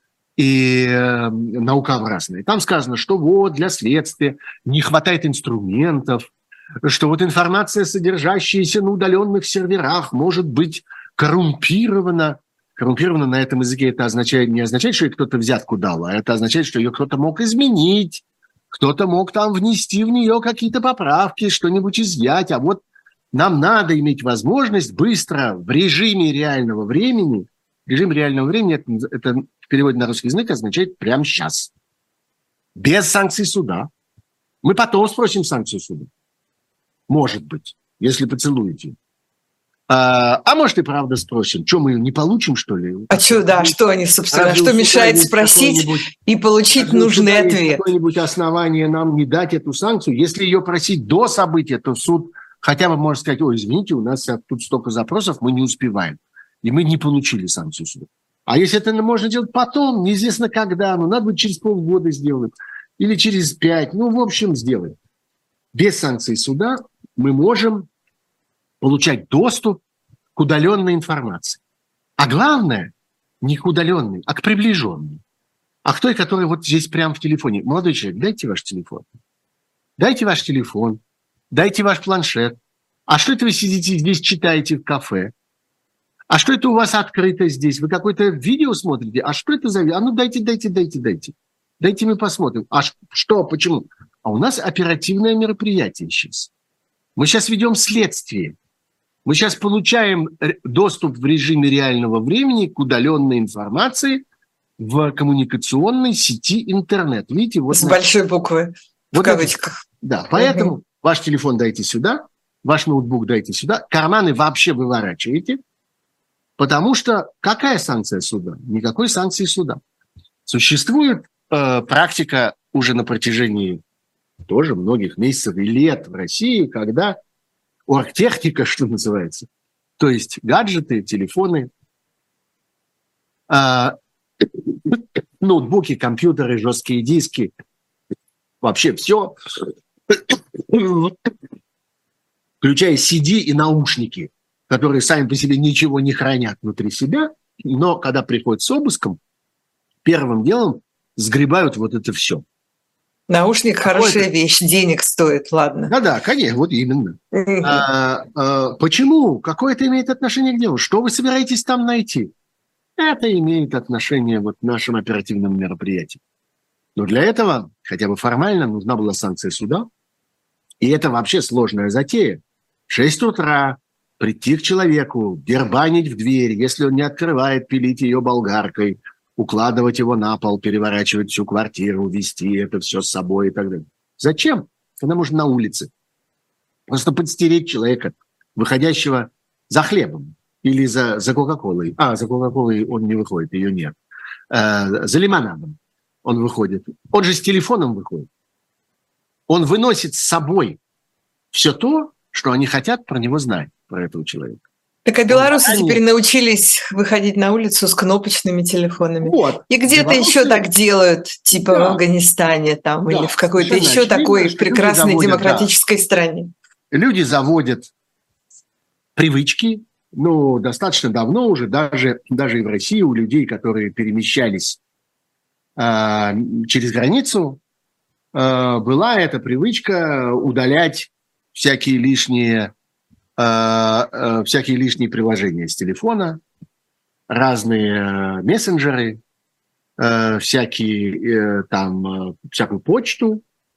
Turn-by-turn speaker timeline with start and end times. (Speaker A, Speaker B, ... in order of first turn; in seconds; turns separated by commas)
Speaker A: 0.4-6.3, Speaker A: 6.8-22.8, Speaker A: 23.3-31.7, Speaker A: 32.8-33.9, Speaker A: 34.6-36.1, Speaker A: 37.1-39.0, Speaker A: 39.9-43.8, Speaker B: 43.1-47.8, Speaker A: 44.3-46.1, Speaker A: 46.8-65.0, Speaker A: 65.7-67.9, Speaker A: 68.8-69.8, Speaker A: 70.4-71.6, Speaker A: 72.2-75.2, Speaker A: 75.8-79.1, Speaker A: 80.0-85.3, Speaker A: 86.3-96.5, Speaker A: 97.2-98.5, Speaker A: 99.2-104.2, Speaker A: 104.8-108.0, Speaker B: 107.7-109.8, Speaker A: 109.1-115.6, Speaker B: 110.3-110.7, Speaker A: 116.6-119.8, Speaker A: 120.5-123.8, Speaker A: 124.5-127.2, Speaker A: 127.9-129.5, Speaker A: 130.0-131.7, Speaker A: 133.5-137.5, Speaker A: 138.6-141.3, Speaker A: 142.6-149.2, Speaker A: 150.1-152.4, Speaker B: 153.3-155.9, Speaker A: 153.8-154.3, Speaker A: 155.9-162.3, Speaker B: 157.3-157.8, Speaker A: 163.0-166.2, Speaker A: 167.0-169.9, Speaker A: 170.8-185.9, Speaker A: 186.9-194.0, Speaker A: 194.5-198.3, Speaker A: 199.5-200.8, Speaker A: 201.5-204.6, Speaker B: 205.1-216.5, Speaker A: 205.3-206.0, Speaker A: 209.2-210.7, Speaker A: 211.5-212.0, Speaker A: 213.1-215.7, Speaker A: 216.9-217.9, Speaker A: 219.2-224.8, Speaker A: 225.8-227.6, Speaker A: 228.3-232.7, Speaker A: 233.4-236.4, Speaker A: 237.3-239.2, Speaker A: 240.0-243.4